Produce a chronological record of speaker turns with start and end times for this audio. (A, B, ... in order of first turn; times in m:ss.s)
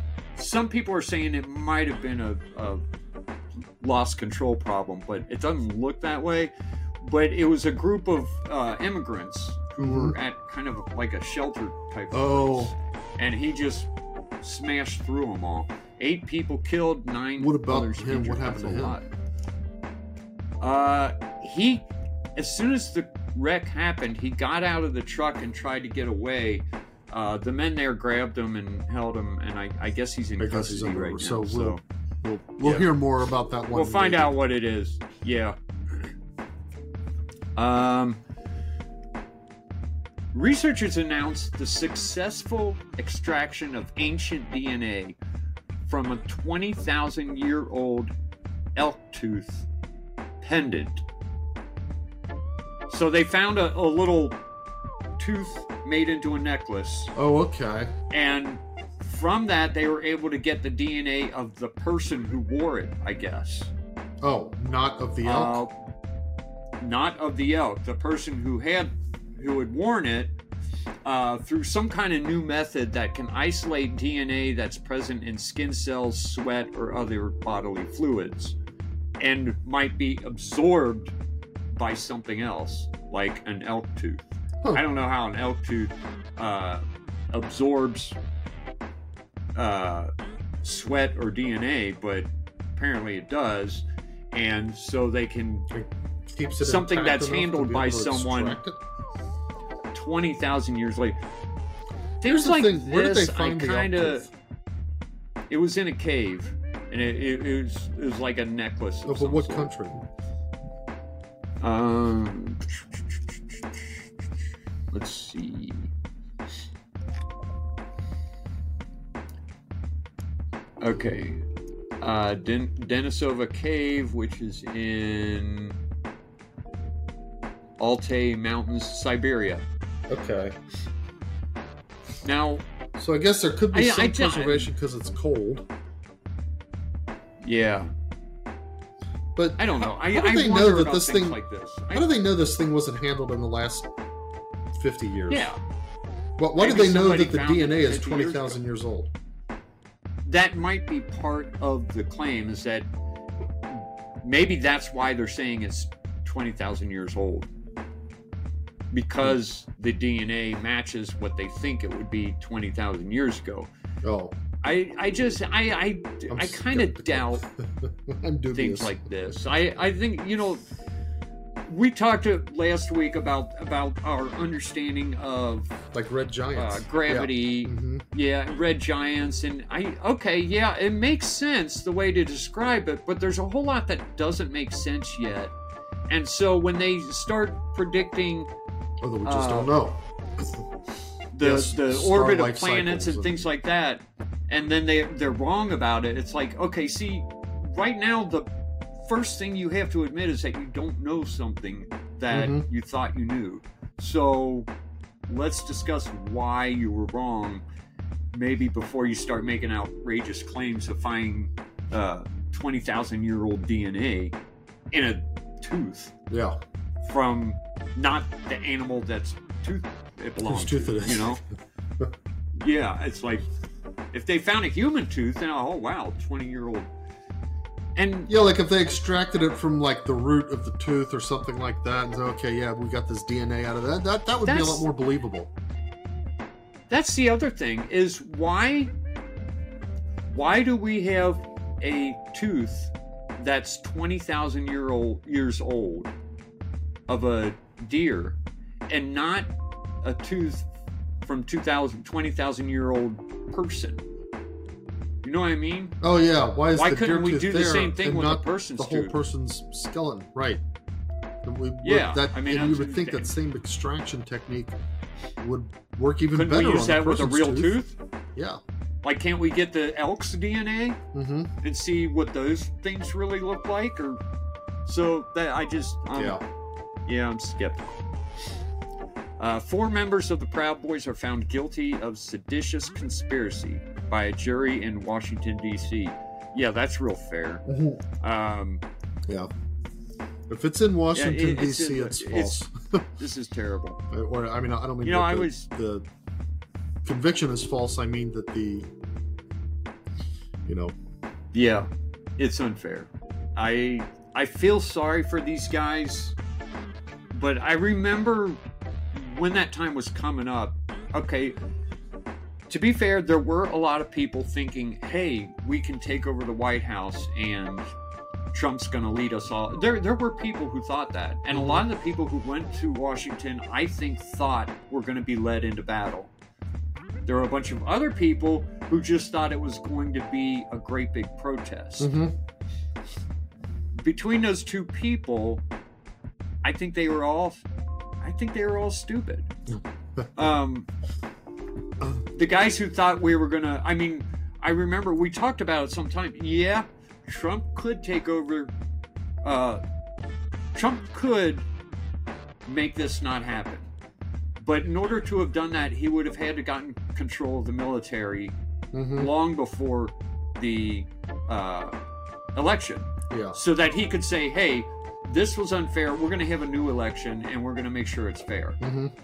0:00.4-0:02.8 A
0:03.8-0:13.9 A
0:09.8-0:10.2 B
0:12.1-0:12.7 B
0:14.4-0:19.0 A
0:17.4-0:19.0 B
0:20.6-0:21.8 A
0:22.4-0:31.8 A
0:30.4-0:34.3 B
0:32.6-0:32.9 A
0:33.7-0:36.1 A
0:37.6-0:38.2 A
0:40.3-0:45.2 A
0:45.8-0:48.1 A
0:48.7-0:49.7 A
0:50.4-0:51.0 A
0:52.9-0:54.4 A
0:55.2-0:57.1 A
0:57.1-0:57.9 B
0:58.1-1:03.7 A
1:04.2-1:05.6 B
1:05.2-1:05.7 A
1:06.8-1:10.3 A
1:11.0-1:18.6 A
1:19.2-1:21.1 A
1:21.7-1:28.2 A
1:29.5-1:30.1 A
1:30.6-1:35.7 A
1:35.7-1:38.8 B
1:36.6-1:38.6 A
1:39.9-1:41.2 A
1:42.2-1:44.2 A
1:42.2-1:44.3 B
1:45.5-1:49.7 A
1:49.0-1:50.0 B
1:51.6-1:54.0 A
1:54.9-1:55.9 A
2:00.8-2:01.4 A
2:02.0-2:05.8 A
2:07.8-2:09.6 A
2:10.1-2:10.6 B
2:12.2-2:12.6 A
2:13.0-2:15.7 B
2:13.7-2:14.7 A
2:17.4-2:17.9 A
2:19.3-2:21.4 B
2:19.6-2:22.1 A
2:21.9-2:23.9 B
2:24.7-2:25.5 B
2:25.3-2:25.6 A
2:26.4-2:29.1 B
2:26.6-2:28.6 A
2:30.2-2:32.9 A
2:33.7-2:37.5 A
2:38.9-2:43.7 A
2:44.0-2:44.3 B
2:44.6-2:47.4 A
2:46.3-2:49.0 B
2:48.5-2:50.6 A
2:51.6-2:55.8 A
2:55.9-2:58.0 B
2:56.5-3:05.5 A
3:06.1-3:08.5 A
3:09.0-3:10.6 B
3:09.2-3:09.7 A
3:11.3-3:18.5 A
3:11.4-3:13.3 B
3:19.0-3:24.7 A
3:22.3-3:22.6 B
3:25.3-3:27.6 A
3:28.3-3:34.3 A
3:34.9-3:36.1 A
3:36.3-3:36.6 B
3:37.0-3:41.4 A
3:40.4-3:41.4 B
3:42.6-3:43.4 A
3:44.1-3:46.9 A
3:48.0-3:48.3 A
3:48.3-3:55.5 B
3:54.4-3:54.8 A
3:56.9-3:58.9 A
4:00.3-4:06.1 A
4:07.1-4:08.4 A
4:08.9-4:09.5 A
4:10.0-4:10.7 A
4:11.2-4:14.0 A
4:15.2-4:16.0 A
4:16.0-4:20.6 B
4:16.7-4:19.1 A
4:21.4-4:24.8 B
4:21.8-4:23.3 A
4:25.4-4:27.8 B
4:26.3-4:28.0 A
4:28.3-4:28.6 B
4:29.0-4:31.0 A
4:31.1-4:31.5 B
4:31.6-4:34.2 A
4:34.8-4:36.4 A
4:36.1-4:36.4 B
4:37.0-4:37.9 A
4:39.4-4:47.6 A
4:47.6-4:48.0 B
4:48.2-4:48.8 A
4:50.5-4:53.1 B
4:51.1-4:52.6 A
4:53.2-4:54.0 A
4:54.1-4:56.1 B
4:55.0-4:55.7 A
4:57.0-4:58.9 B
5:00.6-5:01.0 B
5:01.5-5:06.4 A
5:07.3-5:08.6 A
5:09.1-5:11.6 A
5:12.7-5:17.9 A
5:18.5-5:26.3 A
5:21.5-5:21.8 B
5:27.2-5:32.1 A
5:32.0-5:32.3 B
5:34.0-5:35.6 A
5:36.6-5:37.6 A
5:38.2-5:39.5 A
5:39.7-5:40.3 B
5:40.3-5:40.9 A
5:42.3-5:48.7 A
5:49.4-5:49.8 A
5:50.7-5:51.7 A
5:52.6-5:53.9 A
5:54.6-5:58.6 A
5:58.9-5:59.3 B
5:59.1-6:02.0 A
6:02.5-6:08.8 A
6:03.3-6:03.6 B
6:08.8-6:09.1 B